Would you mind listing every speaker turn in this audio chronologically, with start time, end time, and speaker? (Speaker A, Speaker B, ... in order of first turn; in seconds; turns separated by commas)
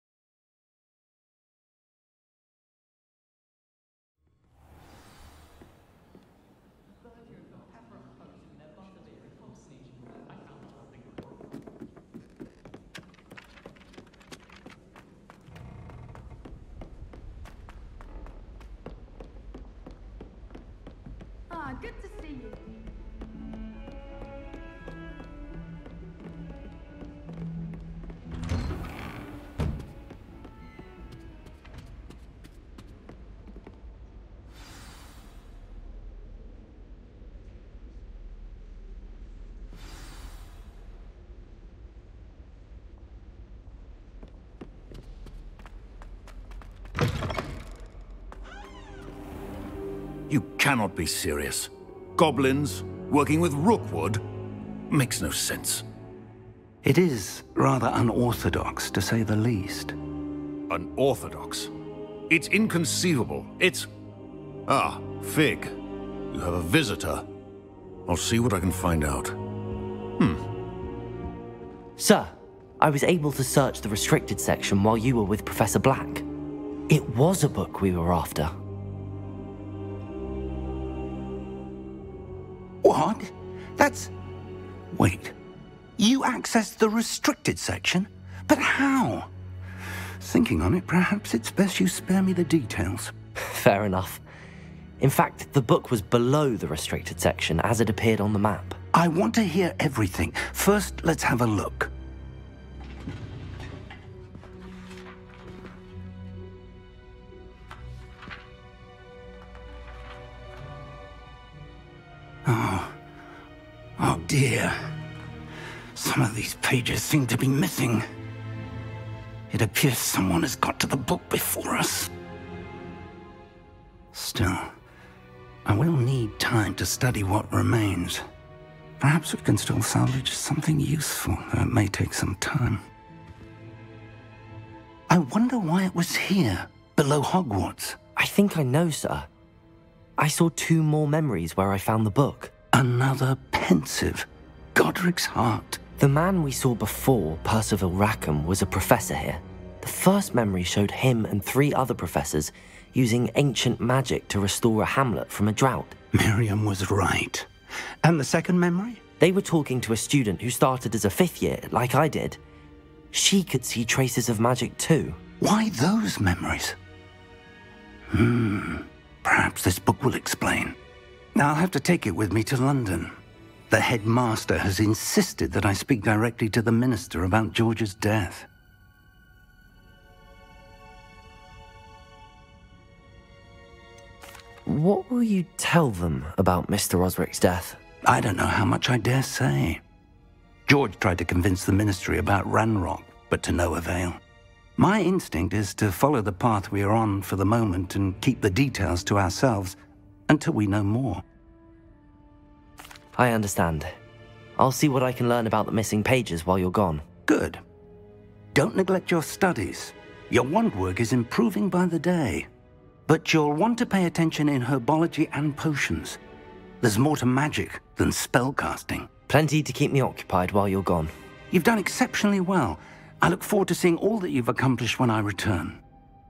Speaker A: 50.3-54.2, Speaker A: 54.9-55.9, Speaker B: 56.8-60.0, Speaker A: 60.7-61.7, Speaker A: 62.3-63.9, Speaker A: 64.7-65.8, Speaker A: 66.3-67.3, Speaker A: 68.1-69.4, Speaker C: 72.0-76.2, Speaker C: 76.9-78.5, Speaker B: 82.8-84.1, Speaker B: 84.9-85.3, Speaker B: 86.0-89.3, Speaker B: 90.2-93.1, Speaker C: 93.5-94.2, Speaker C: 95.0-98.8, Speaker B: 98.9-101.9, Speaker B: 112.5-113.0, Speaker B: 114.0-114.8, Speaker B: 116.0-118.0, Speaker B: 119.5-122.1, Speaker B: 124.1-124.7, Speaker B: 125.7-128.2, Speaker B: 129.0-132.8, Speaker B: 135.1-138.0, Speaker C: 138.2-139.3, Speaker C: 140.2-142.5, Speaker B: 142.7-145.8, Speaker C: 146.0-156.0, Speaker B: 156.1-157.5, Speaker B: 158.0-159.0, Speaker C: 159.2-162.4, Speaker C: 163.1-165.2, Speaker B: 165.4-166.8, Speaker B: 168.1-170.8, Speaker B: 171.3-173.1, Speaker B: 173.7-178.5, Speaker C: 184.7-187.8, Speaker B: 188.1-189.8, Speaker B: 190.7-194.2, Speaker B: 194.8-199.8, Speaker B: 200.3-201.2, Speaker C: 203.2-203.9, Speaker C: 204.6-207.1, Speaker B: 207.3-207.6, Speaker B: 208.5-212.5, Speaker B: 213.1-216.2, Speaker B: 216.8-219.1, Speaker C: 219.3-221.1, Speaker B: 221.5-225.8